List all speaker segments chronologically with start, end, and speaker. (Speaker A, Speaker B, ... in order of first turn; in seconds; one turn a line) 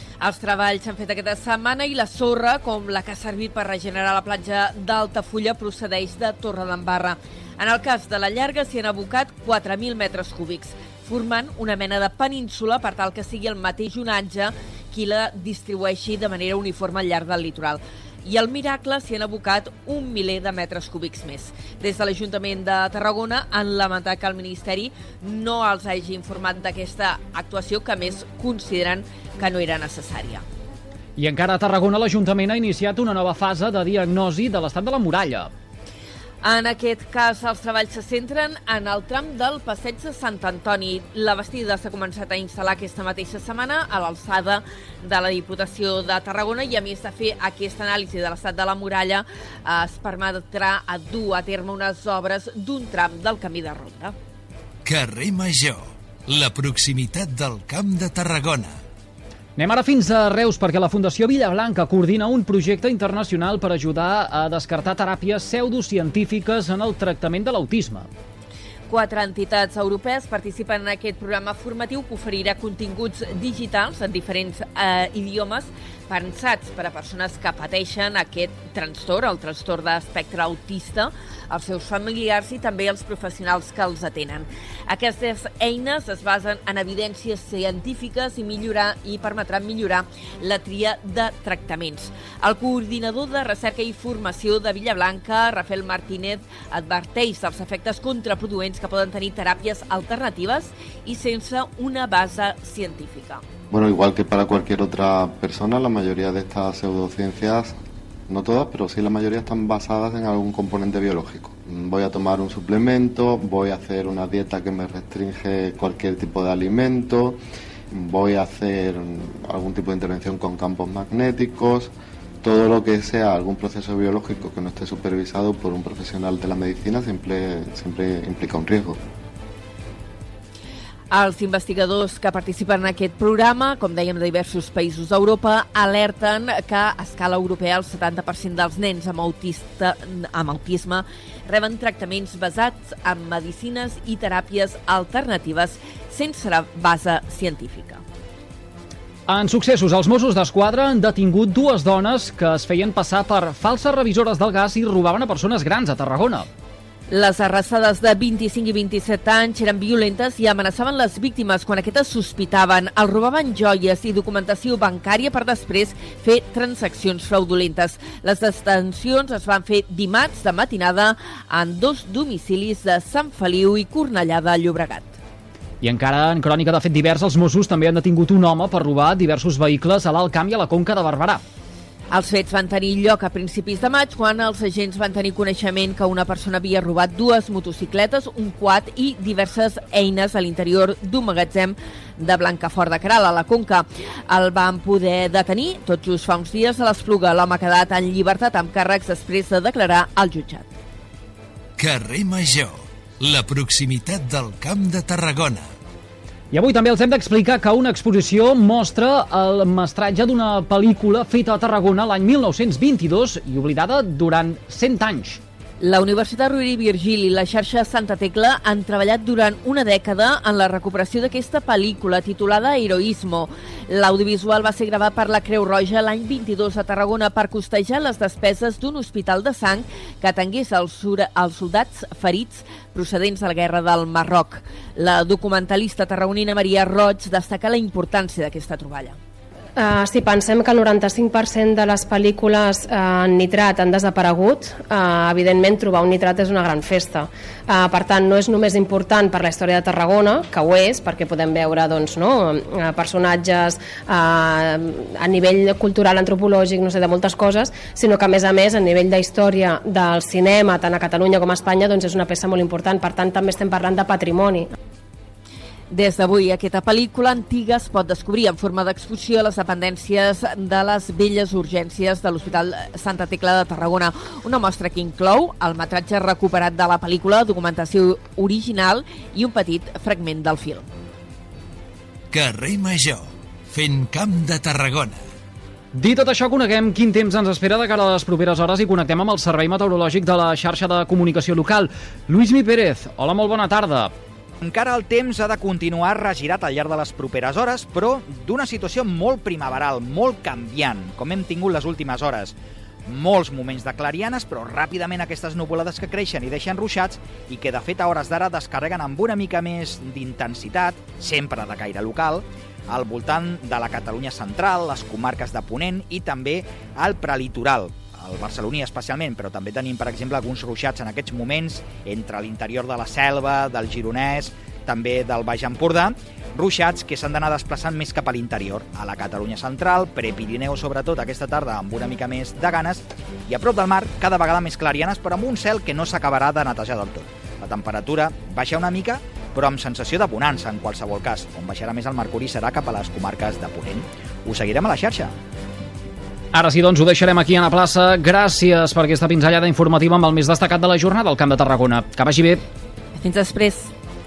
Speaker A: 0.2-30.4
Speaker B: 31.2-35.5
Speaker A: 36.4-54.1
Speaker C: 54.8-58.8
Speaker B: 59.6-68.1
Speaker A: 68.9-103.4
Speaker D: 103.7-107.7
Speaker D: 108.3-117.4
Speaker D: 117.9-121.9
Speaker D: 122.4-129.0
Speaker A: 131.1-148.0
Speaker B: 149.3-156.5
Speaker A: 157.1-175.2
Speaker B: 175.8-181.4
Speaker A: 182.1-200.7
Speaker C: 201.8-205.7
Speaker B: 206.5-215.4
Speaker A: 215.8-239.2
Speaker E: 239.8-264.7
Speaker A: 265.9-280.9
Speaker C: 282.3-285.2
Speaker B: 285.9-294.1
Speaker F: 294.6-302.5
Speaker F: 303.1-345.3
Speaker B: 346.5-352.6
Speaker A: 353.2-353.9